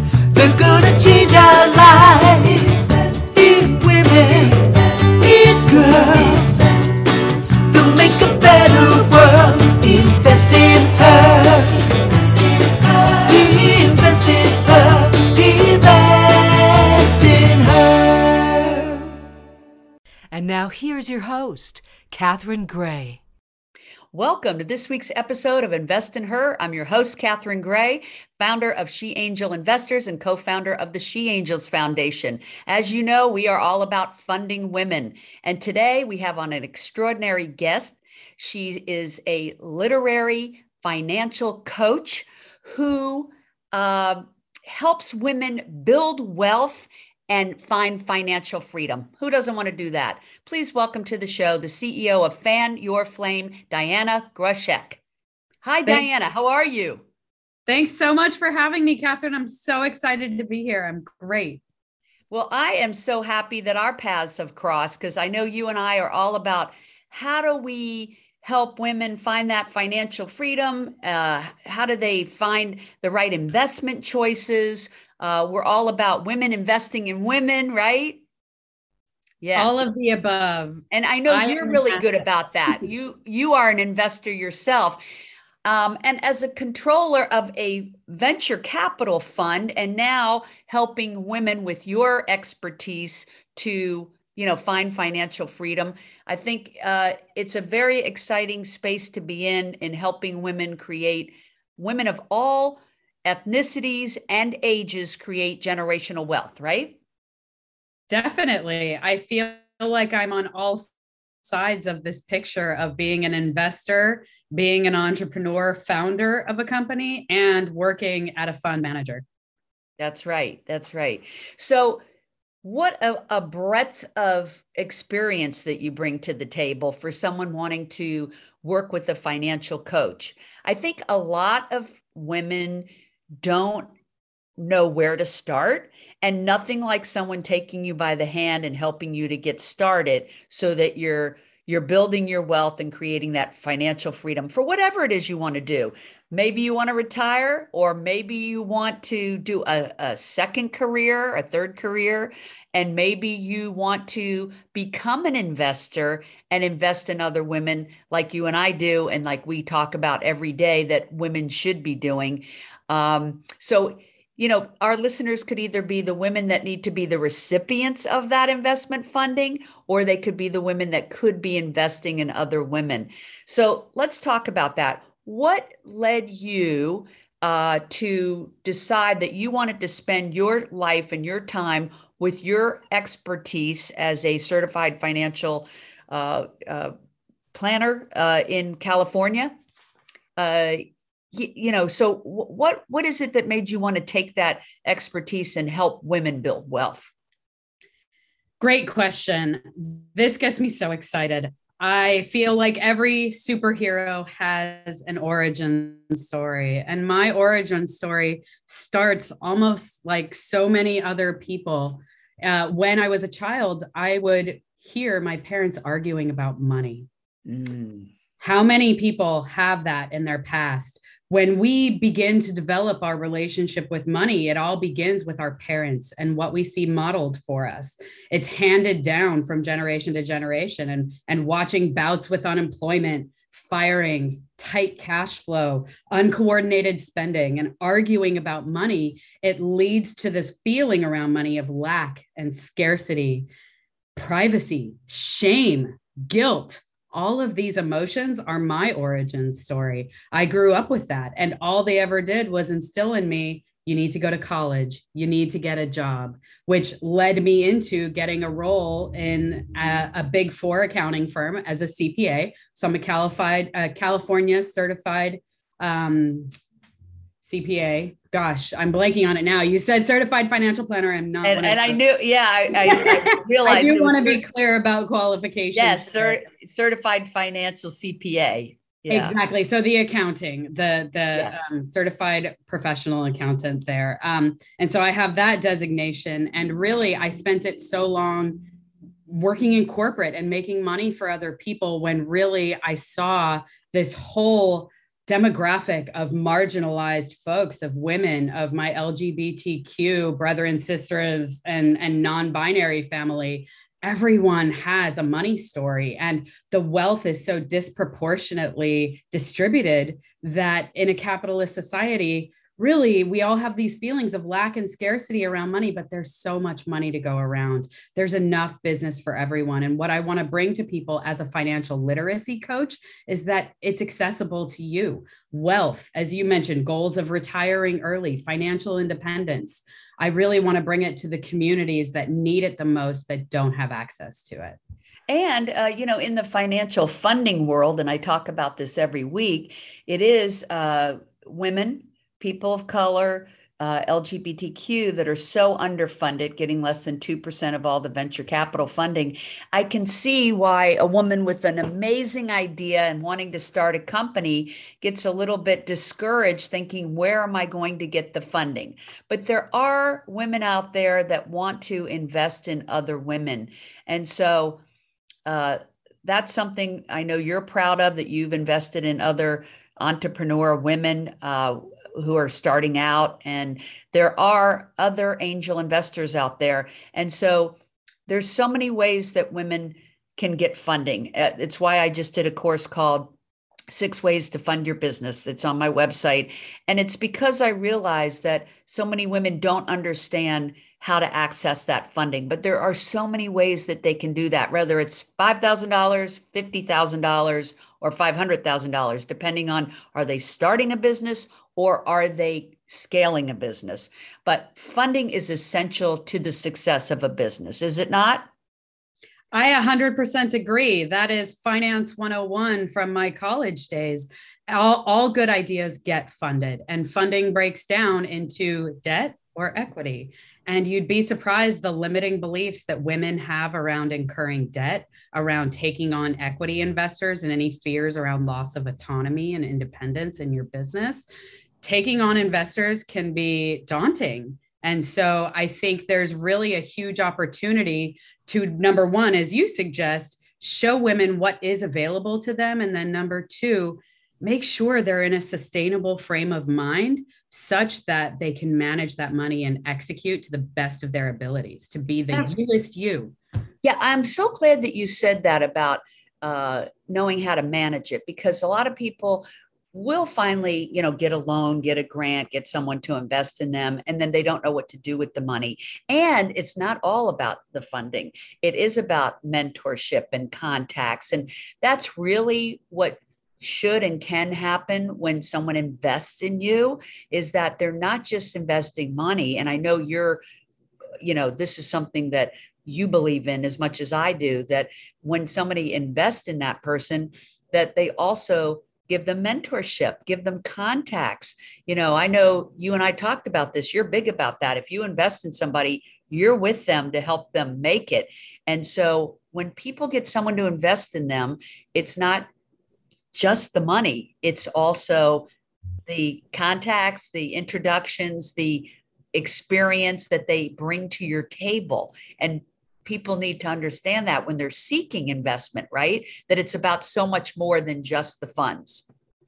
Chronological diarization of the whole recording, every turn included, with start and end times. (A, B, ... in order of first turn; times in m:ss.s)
0:00.3-0:06.9 A
0:07.7-0:19.1 A
0:20.3-0:23.2 A
0:24.1-0:55.0 B
0:55.6-0:57.0 B
0:57.7-1:01.6 C
1:02.3-1:18.2 B
1:19.4-1:19.8 B
1:19.6-1:22.0 C
1:20.9-1:25.0 B
1:25.6-1:47.0 B
1:48.1-1:50.9 C
1:51.4-1:59.2 C
2:00.0-2:02.0 B
2:02.6-2:12.9 B
2:13.4-2:13.9 B
2:14.6-3:06.9 B
3:07.5-3:09.5 B
3:10.4-3:17.1 B
3:18.6-3:37.1 C
3:37.4-3:38.1 B
3:38.4-4:03.5 C
4:04.2-4:26.5 C
4:27.4-4:32.0 C
4:31.4-4:34.4 B
4:32.7-4:36.4 C
4:35.7-4:39.4 B
4:39.1-4:48.6 C
4:41.3-4:41.6 B
4:49.3-5:34.8 C
5:35.3-6:04.8 B
6:05.4-6:23.3 B
6:23.9-6:48.5 B
6:49.5-7:11.2 C
7:11.8-7:33.3 C
7:33.8-8:00.4 B
8:01.2-8:22.5 B
8:23.3-8:25.5 B
8:26.1-8:39.0 B